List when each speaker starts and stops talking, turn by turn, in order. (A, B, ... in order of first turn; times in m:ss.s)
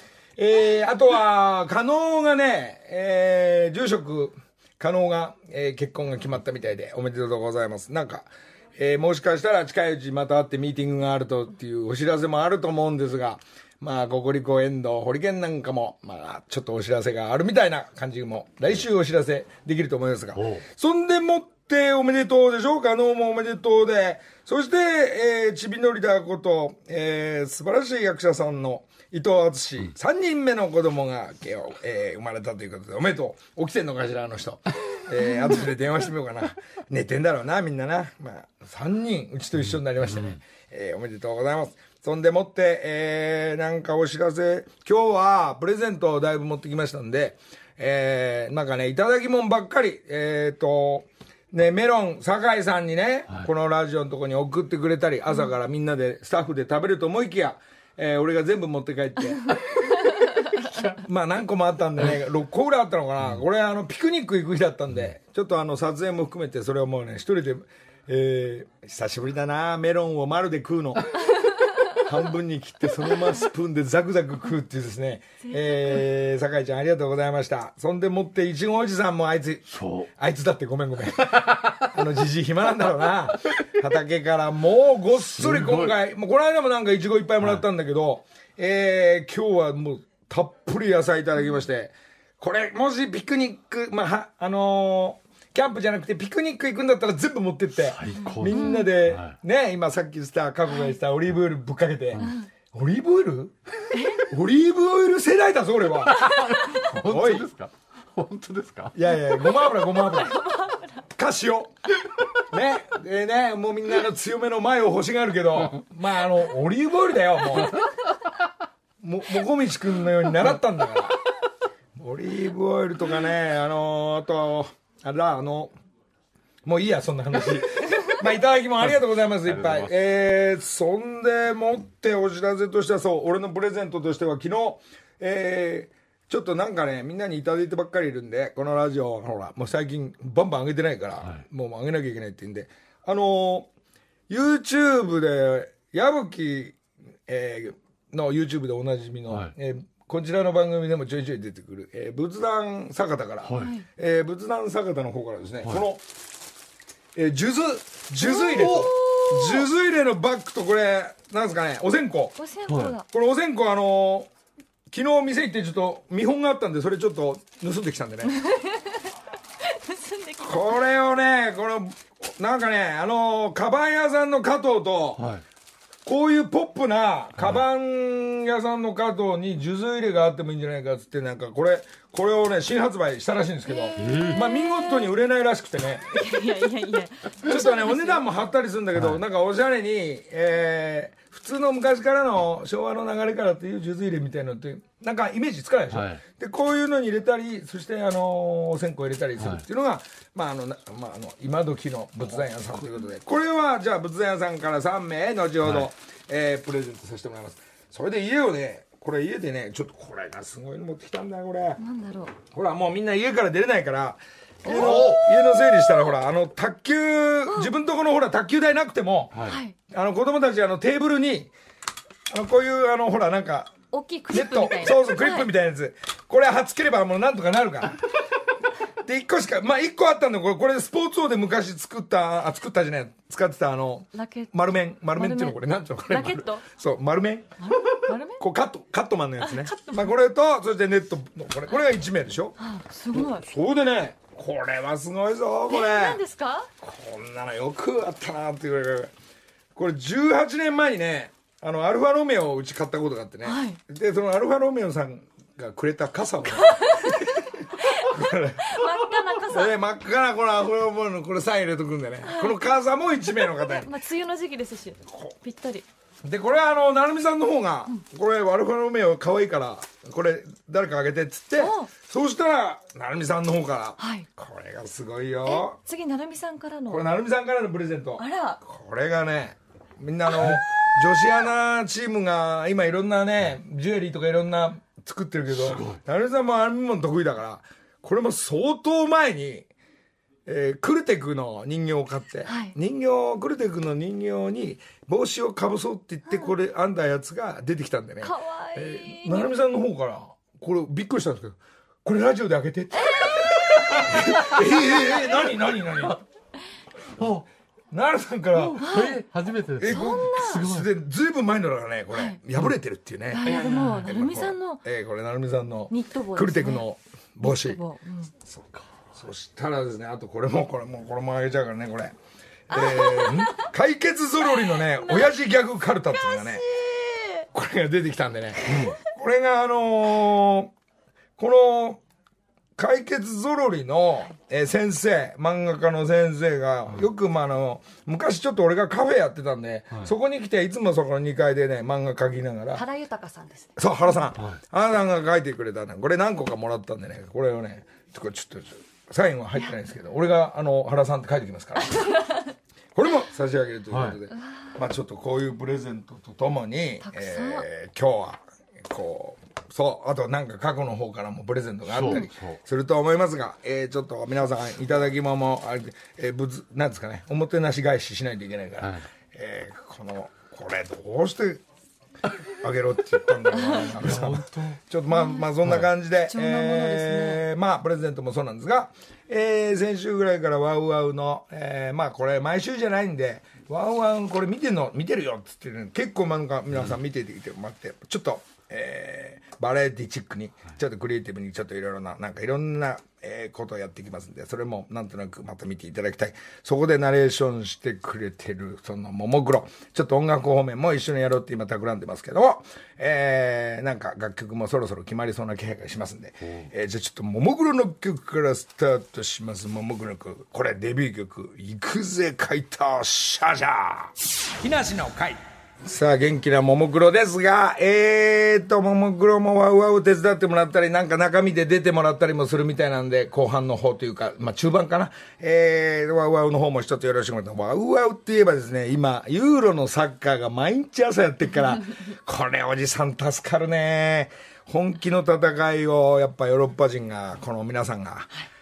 0:00.4-0:59.6 A
0:20.4-0:20.6 B
0:40.1-0:40.4 B
1:00.7-1:11.1 A
1:11.9-1:43.5 A
1:19.7-1:20.1 B
1:25.4-1:25.9 B
1:37.8-1:39.3 B
1:38.4-1:38.9 C
1:43.9-1:44.2 C
1:44.1-1:46.3 A
1:46.1-1:48.9 B
1:46.9-1:47.5 A
1:48.9-1:50.4 A
1:50.1-1:50.9 C
1:51.1-1:51.7 A
1:52.5-1:57.8 A
1:59.0-2:01.2 A
2:02.0-2:05.7 A
2:06.6-2:23.7 A
2:09.6-2:09.9 B
2:24.3-2:36.0 A
2:33.4-2:33.7 B
2:33.6-2:33.8 C
2:37.1-2:42.4 A
2:38.2-2:39.7 C
2:42.4-2:43.0 C
2:42.7-2:42.9 B
2:43.0-2:44.3 A
2:44.9-2:48.4 A
2:48.4-2:48.9 C
2:49.6-2:50.6 C
2:50.4-2:55.3 A
2:56.0-3:06.1 A
3:04.0-3:04.4 B
3:06.1-3:08.2 C
3:07.4-3:31.8 A
3:15.9-3:16.2 B
3:31.8-3:32.3 C
3:32.4-3:41.5 A
3:34.7-3:35.1 C
3:34.7-3:35.2 B
3:39.3-3:39.6 B
3:39.4-3:39.7 C
3:42.3-3:43.7 A
3:43.9-3:45.5 C
3:44.3-3:48.0 A
3:49.0-3:57.6 A
3:54.1-3:54.5 C
3:55.1-3:55.6 C
3:56.1-3:56.6 C
3:57.6-3:58.4 C
3:58.4-4:02.6 A
3:59.4-4:00.1 C
4:02.6-4:03.4 C
4:03.1-4:06.2 A
4:05.7-4:06.7 C
4:06.8-4:09.1 A
4:09.8-4:23.9 A
4:13.4-4:13.8 C
4:16.6-4:17.3 C
4:17.8-4:19.7 C
4:22.2-4:22.6 C
4:23.3-4:25.8 C
4:26.2-4:35.8 A
4:31.6-4:31.9 C
4:34.0-4:34.2 C
4:35.5-4:37.0 C
4:36.9-4:49.7 A
4:38.2-4:38.6 C
4:45.5-4:46.0 B
4:50.4-5:06.2 A
4:52.4-4:52.7 C
4:58.2-4:59.5 C
5:03.0-5:04.1 C
5:07.2-5:07.4 B
5:07.9-5:09.0 A
5:08.6-5:09.2 C
5:08.8-5:10.9 B
5:09.8-5:17.8 A
5:09.9-5:10.6 C
5:12.1-5:12.4 C
5:13.3-5:14.8 C
5:13.4-5:14.1 B
5:15.9-5:16.8 C
5:17.4-5:18.3 C
5:18.5-5:18.8 B
5:19.1-5:22.1 A
5:22.7-5:26.6 A
5:22.7-5:23.6 C
5:25.0-5:25.3 C
5:26.2-5:27.4 C
5:27.5-5:30.7 A
5:28.6-5:28.9 B
5:31.4-5:32.0 A
5:32.8-5:42.8 A
5:42.7-5:43.7 C
5:43.8-5:52.2 A
5:52.1-5:52.4 C
5:52.9-6:11.6 A
5:53.9-5:54.2 B
5:57.0-5:57.6 C
6:01.9-6:02.6 B
6:12.5-7:18.3 A
6:13.6-6:13.8 C
6:14.0-6:14.8 B
6:16.3-6:17.4 C